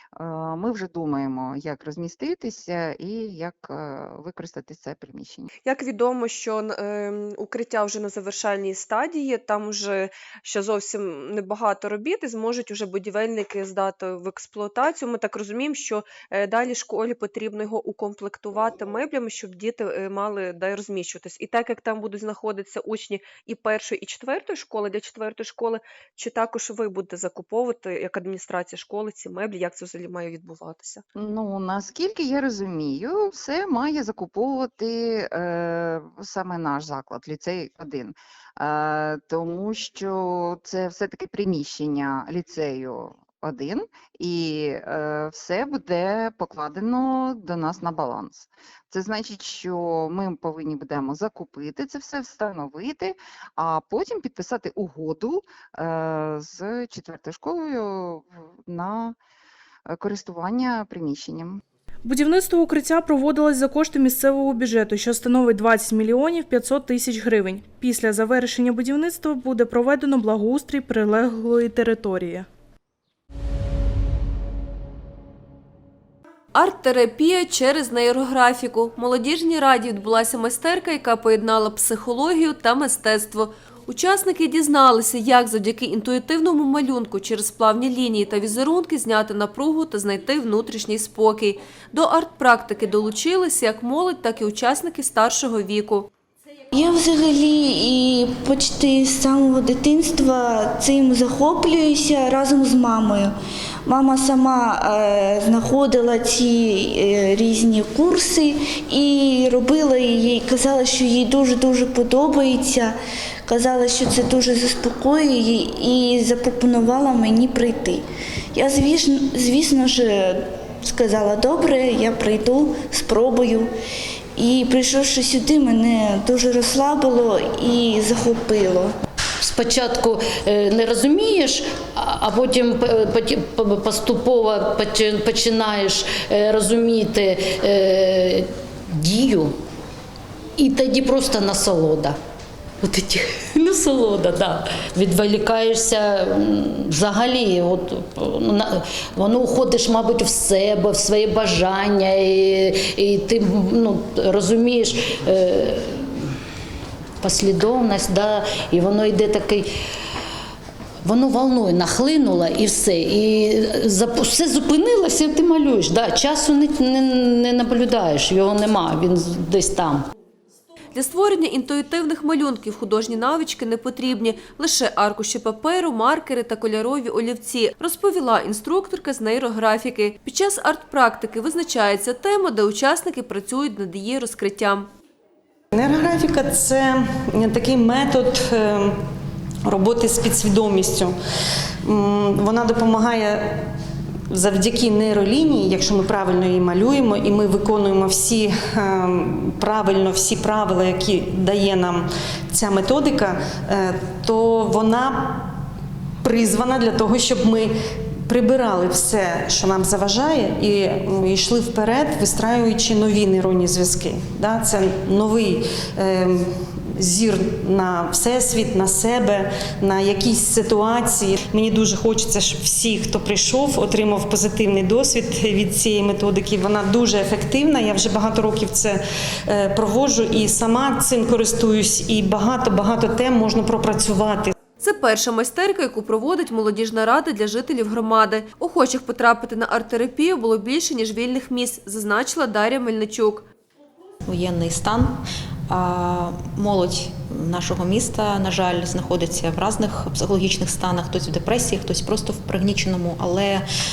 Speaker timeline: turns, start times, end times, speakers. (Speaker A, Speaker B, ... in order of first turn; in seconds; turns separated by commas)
Speaker A: 0.2-5.5, Speaker B: 5.7-31.0, Speaker A: 31.1-59.1, Speaker A: 59.9-61.6, Speaker C: 62.0-72.5, Speaker D: 76.5-96.1, Speaker E: 96.8-103.3, Speaker E: 103.9-112.9, Speaker E: 113.5-118.0, Speaker E: 118.5-120.4, Speaker E: 120.9-123.7, Speaker E: 124.4-128.9, Speaker F: 129.4-139.6, Speaker F: 140.6-142.2, Speaker F: 142.8-156.3, Speaker F: 157.2-159.7, Speaker F: 161.0-170.1, Speaker D: 170.9-184.9, Speaker G: 185.7-188.9, Speaker G: 189.6-191.1, Speaker G: 191.8-193.6, Speaker G: 194.3-205.5, Speaker G: 206.2-207.7, Speaker G: 208.3-234.5, Speaker D: 234.8-243.4, Speaker H: 244.3-245.2, Speaker H: 245.7-253.6